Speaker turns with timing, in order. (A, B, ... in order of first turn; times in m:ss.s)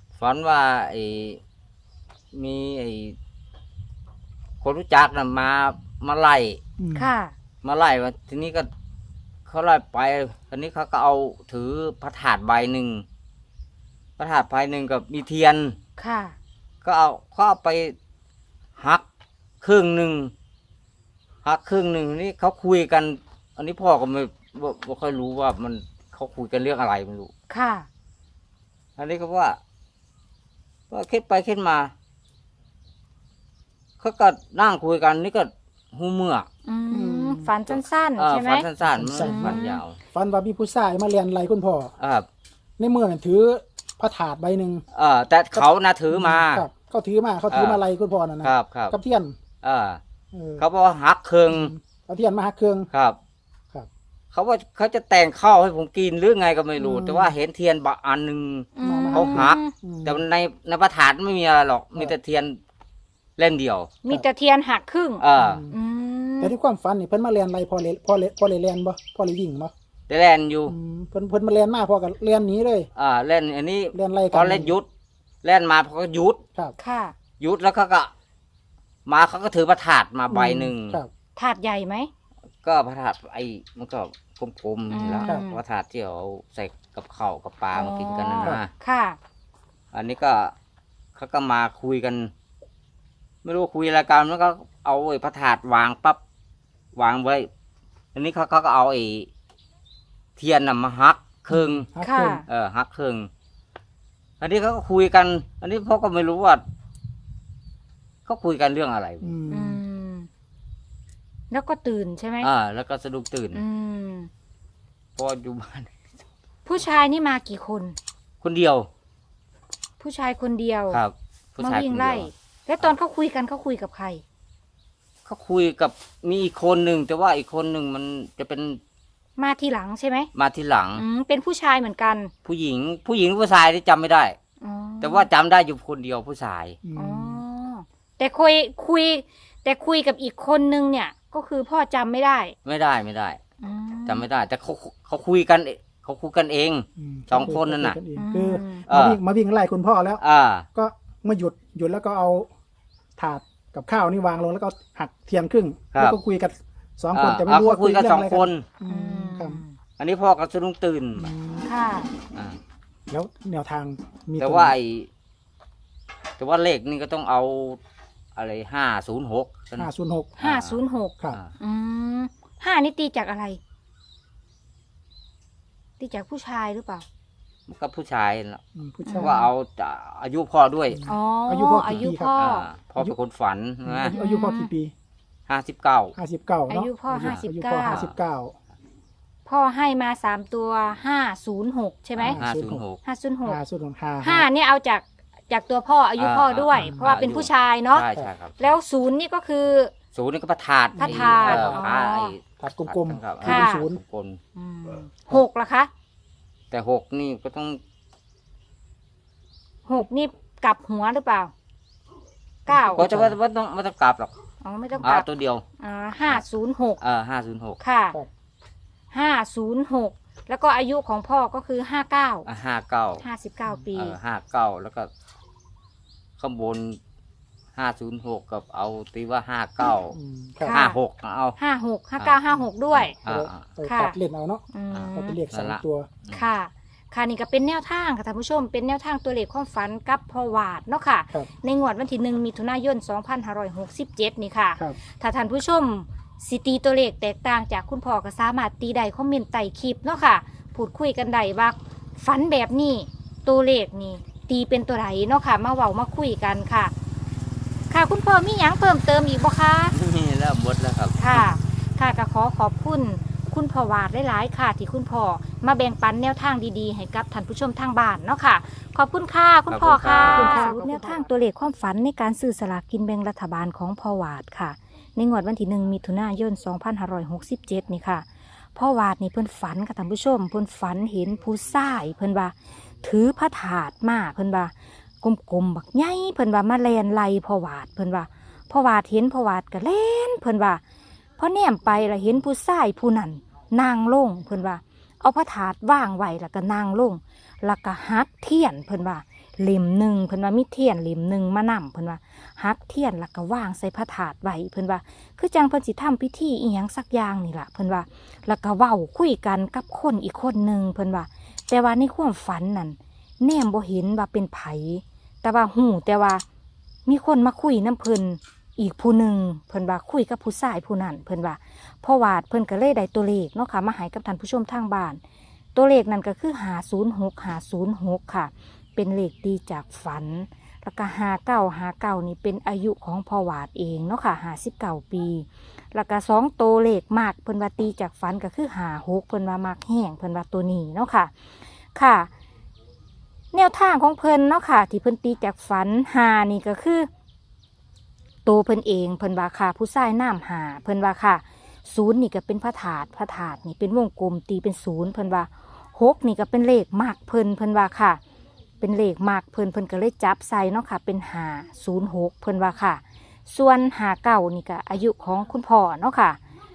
0:00.2-0:01.4 A
0:02.3-0:03.2 A
0:04.6-0:06.6 A
0:06.8-0:07.1 B
0:07.0-0:07.4 C
0:07.6-0:08.7 A
0:09.5-0:13.0 A
0:14.2-0:15.8 A
0:16.0-0:16.4 C
0:16.8-0:18.0 A
0:18.8-0:19.0 A
0:19.6-0:20.3 A
0:21.4-0:27.3 A
0:27.5-0:27.9 C
0:29.0-0:29.6 A
0:30.9-0:31.9 A
0:34.0-0:36.5 A
0:36.6-0:39.8 C
0:36.9-0:37.5 B
0:37.7-0:40.0 A
0:38.8-0:41.9 B
0:42.0-0:42.3 A
0:42.8-0:44.8 B
0:44.9-0:46.7 A
0:45.5-0:49.4 B
0:47.5-0:47.8 A
0:48.4-0:49.0 A
0:49.6-0:50.0 A
0:50.3-0:50.6 B
0:50.6-0:51.7 A
0:51.5-0:52.9 B
0:52.9-0:53.2 A
0:54.3-1:02.6 A
0:56.8-0:57.4 B
0:58.8-0:59.7 C
0:58.8-1:00.2 B
1:03.4-1:03.9 A
1:04.0-1:06.5 C
1:05.2-1:05.6 A
1:05.4-1:05.8 B
1:06.4-1:09.7 B
1:10.1-1:10.8 A
1:10.7-1:12.9 B
1:13.0-1:14.9 A
1:13.9-1:14.8 B
1:15.4-1:16.4 A
1:16.8-1:17.2 C
1:17.4-1:18.1 A
1:19.1-1:21.0 A
1:20.3-1:21.1 B
1:21.4-1:22.1 C
1:22.6-1:28.7 A
1:24.9-1:25.6 C
1:27.7-1:29.2 C
1:29.9-1:30.5 A
1:31.2-1:32.3 A
1:33.4-1:36.2 A
1:37.0-1:37.5 A
1:38.2-1:39.3 A
1:40.4-1:41.9 A
1:41.5-1:42.4 B
1:42.0-1:42.4 C
1:42.5-1:43.3 A
1:44.4-1:46.6 A
1:48.3-1:49.4 A
1:49.2-1:49.8 B
1:49.5-1:50.3 C
1:51.5-1:52.5 C
1:52.4-1:53.6 A
1:53.5-1:54.3 C
1:55.2-1:56.0 A
1:56.7-1:58.0 C
1:58.4-1:58.9 A
2:00.0-2:01.0 C
2:00.9-2:02.9 A
2:01.6-2:04.2 C
2:05.3-2:08.8 A
2:09.4-2:10.3 C
2:10.3-2:11.0 A
2:11.0-2:12.3 C
2:12.4-2:14.4 A
2:14.6-2:15.3 C
2:15.0-2:16.8 A
2:16.8-2:17.4 B
2:17.0-2:22.6 C
2:22.6-2:23.4 A
2:23.6-2:24.3 C
2:24.1-2:28.0 A
2:27.0-2:30.2 B
2:28.2-2:28.9 C
2:28.9-2:29.2 A
2:30.2-2:30.7 A
2:30.8-2:32.5 B
2:33.2-2:39.6 B
2:35.9-2:36.2 A
2:37.1-2:38.7 A
2:38.8-2:39.8 C
2:40.0-2:41.3 A
2:41.2-2:41.7 B
2:41.6-2:42.1 C
2:43.1-2:44.8 B
2:44.4-2:45.1 A
2:46.4-2:47.8 A
2:48.4-2:50.8 A
2:49.8-2:50.4 B
2:50.4-2:53.6 C
2:56.0-2:57.0 C
2:57.7-2:58.6 A
2:58.8-2:59.5 B
2:59.0-2:59.4 C
2:59.2-3:01.0 A
3:00.9-3:02.4 B
3:01.1-3:02.7 C
3:01.9-3:04.2 A
3:03.8-3:04.9 B
3:04.1-3:04.7 C
3:05.5-3:06.2 A
3:06.2-3:08.6 B
3:06.7-3:08.0 C
3:07.1-3:08.2 A
3:09.5-3:12.4 C
3:12.2-3:13.0 A
3:12.2-3:12.8 B
3:13.0-3:13.6 C
3:13.4-3:14.5 B
3:14.2-3:18.1 C
3:16.2-3:18.8 A
3:16.7-3:17.1 B
3:18.6-3:19.9 C
3:20.1-3:24.4 A
3:21.0-3:21.9 B
3:21.0-3:22.4 C
3:22.6-3:24.0 B
3:23.4-3:23.8 C
3:24.6-3:25.9 C
3:26.7-3:27.8 A
3:29.9-3:31.5 C
3:32.7-3:33.1 C
3:32.7-3:33.4 B
3:33.0-3:34.3 A
3:34.6-3:37.0 C
3:35.0-3:35.6 A
3:37.0-3:37.8 A
3:37.8-3:38.2 C
3:39.1-3:42.5 C
3:42.5-3:43.2 A
3:43.2-3:44.2 C
3:43.9-3:45.1 A
3:46.4-3:47.0 A
3:47.8-3:51.6 A
3:50.1-3:50.8 B
3:50.7-3:51.0 C
3:51.6-3:53.2 C
3:52.9-3:53.7 A
3:53.2-3:56.1 B
3:53.8-3:54.2 C
3:54.7-3:55.4 C
3:54.9-3:56.4 A
3:56.3-4:16.9 C
4:17.9-4:20.0 C
4:19.9-4:21.5 A
4:21.2-4:50.8 C
4:29.7-4:30.7 A
4:30.2-4:31.3 B
4:51.4-5:16.4 C
5:17.1-5:25.2 C
5:25.8-5:41.3 C
5:42.0-5:42.3 C
5:43.5-5:47.1 C
5:48.4-5:58.2 C
5:58.8-6:06.4 C